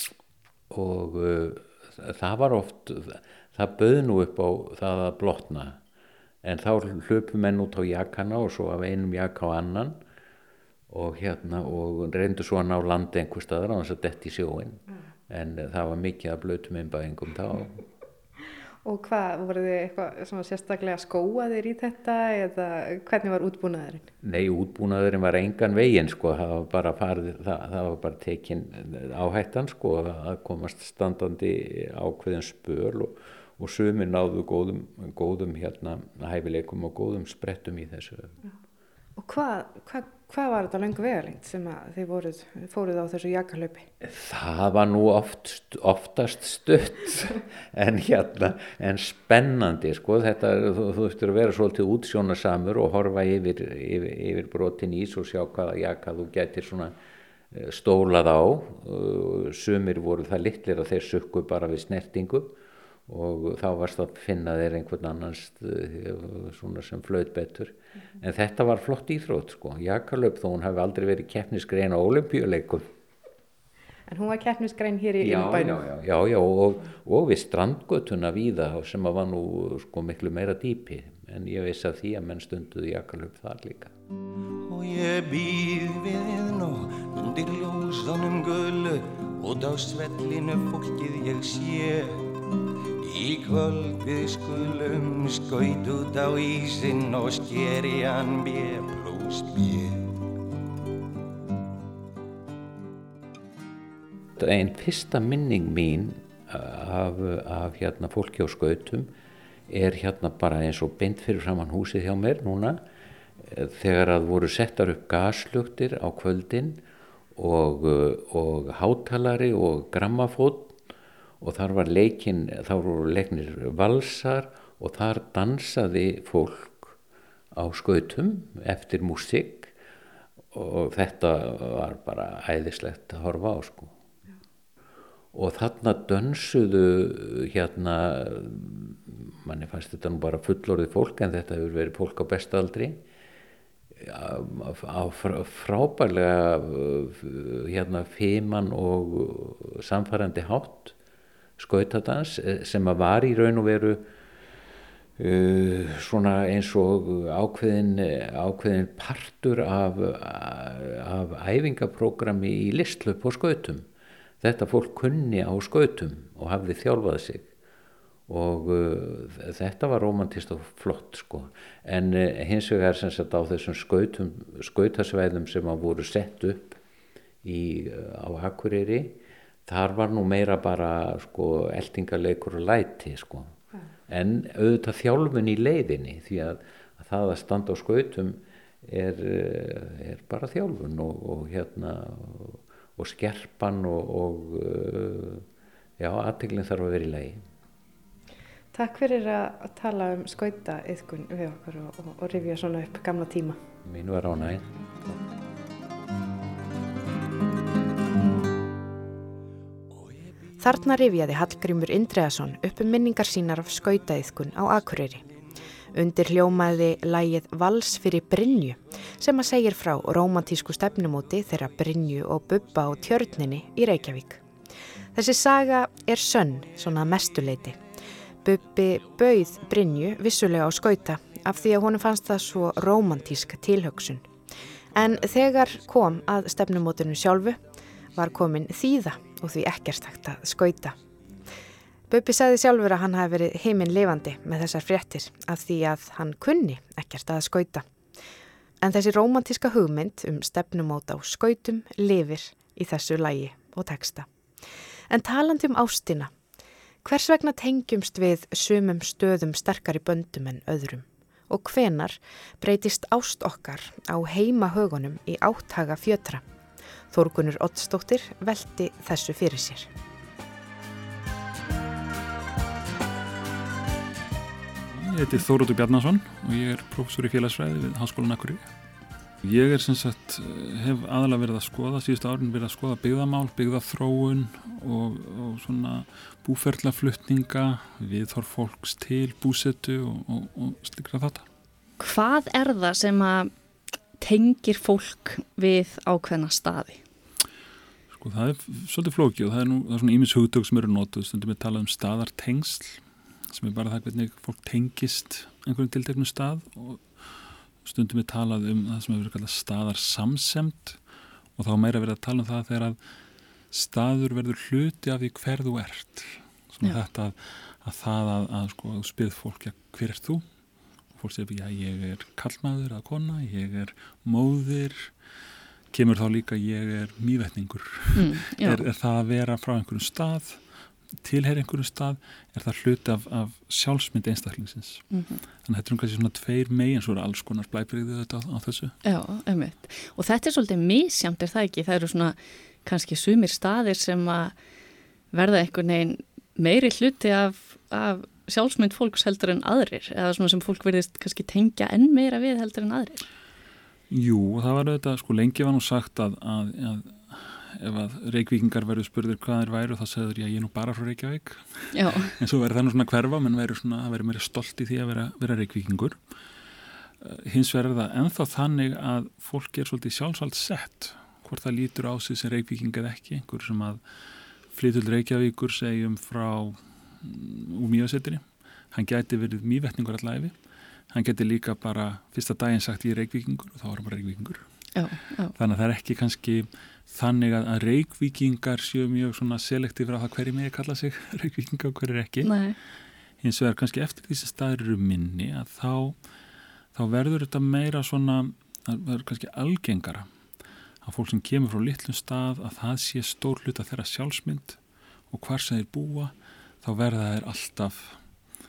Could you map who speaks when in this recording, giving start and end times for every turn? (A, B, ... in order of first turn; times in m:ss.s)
0:00.7-0:05.8 A
0:06.4-0:10.0 A
0:10.9-0:17.8 A
0:18.8-0:24.1 B
0:24.2-0:38.4 A
0:39.2-0:43.9 B
0:44.0-0:56.9 A
0:57.5-1:02.5 A
1:03.1-1:12.8 A
1:14.1-1:15.8 B
1:15.2-1:23.9 A
1:24.6-1:32.2 C
1:33.0-1:40.1 C
1:44.4-1:49.1 A
1:49.7-1:52.8 A
1:53.4-1:56.8 A
1:57.4-2:00.7 A
2:01.4-2:06.9 A
2:07.6-2:09.7 A
2:10.5-2:13.9 A
2:15.3-2:23.0 A
2:24.0-2:30.9 A
2:31.6-2:34.0 A
2:35.2-2:43.8 A
2:44.4-2:47.5 A
2:48.3-2:56.8 A
2:57.4-3:15.4 A
3:16.0-3:17.4 A
3:18.7-3:23.6 B
3:23.8-3:24.7 A
3:30.6-3:35.2 B
3:35.9-3:44.4 B
3:45.1-3:47.8 B
3:48.4-3:54.3 B
3:54.9-3:57.6 B
3:58.1-4:01.0 B
4:02.1-4:07.8 B
4:08.8-4:14.3 B
4:15.1-4:16.3 B
4:17.0-4:26.4 B
4:27.1-4:29.9 B
4:34.9-4:38.7 D
4:39.4-4:51.4 D
4:52.0-4:53.5 E
4:54.2-4:57.0 E
4:58.1-5:11.0 D
5:11.6-5:13.0 D
5:13.7-5:20.5 D
5:21.1-5:25.1 D
5:25.9-5:30.6 D
5:28.1-5:28.8 E
5:31.2-5:35.0 D
5:35.1-5:35.4 E
5:35.6-5:38.9 D
5:39.0-5:44.6 E
5:45.3-5:53.2 E
5:54.1-6:06.2 D
6:01.9-6:02.3 E
6:07.2-6:14.0 D
6:14.7-6:20.6 D
6:21.1-6:24.9 D
6:24.9-6:25.5 E
6:25.5-6:32.6 D
6:32.4-6:32.8 E
6:33.4-6:36.2 D
6:36.9-6:40.3 D
6:41.0-6:44.8 D
6:45.3-6:48.2 D